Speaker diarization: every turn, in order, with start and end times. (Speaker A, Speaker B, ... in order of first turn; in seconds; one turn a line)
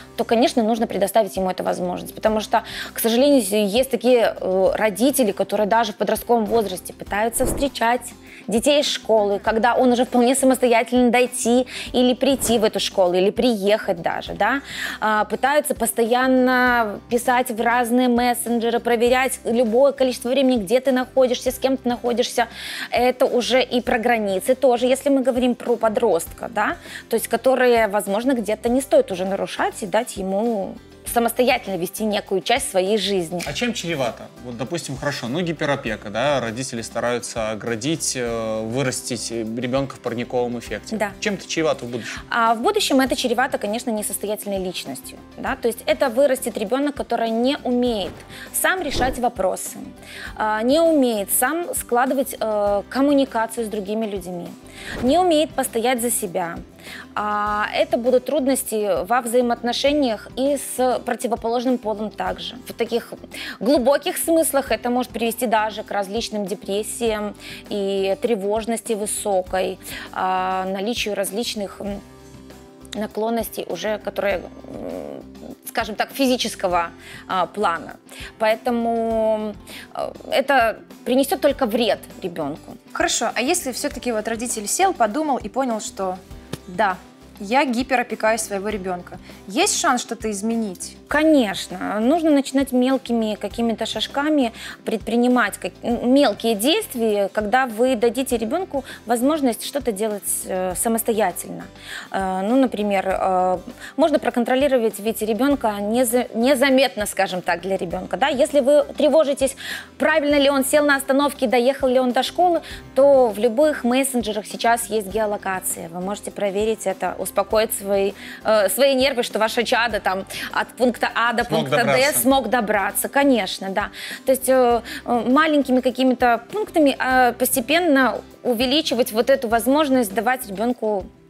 Speaker A: 0.1-33.5
Speaker B: 33.5-42.1
Speaker A: 42.3-56.6
Speaker A: 57.1-72.0
Speaker A: 73.0-82.8
Speaker C: 82.9-91.0
Speaker A: 91.1-131.1
Speaker B: 121.5-122.2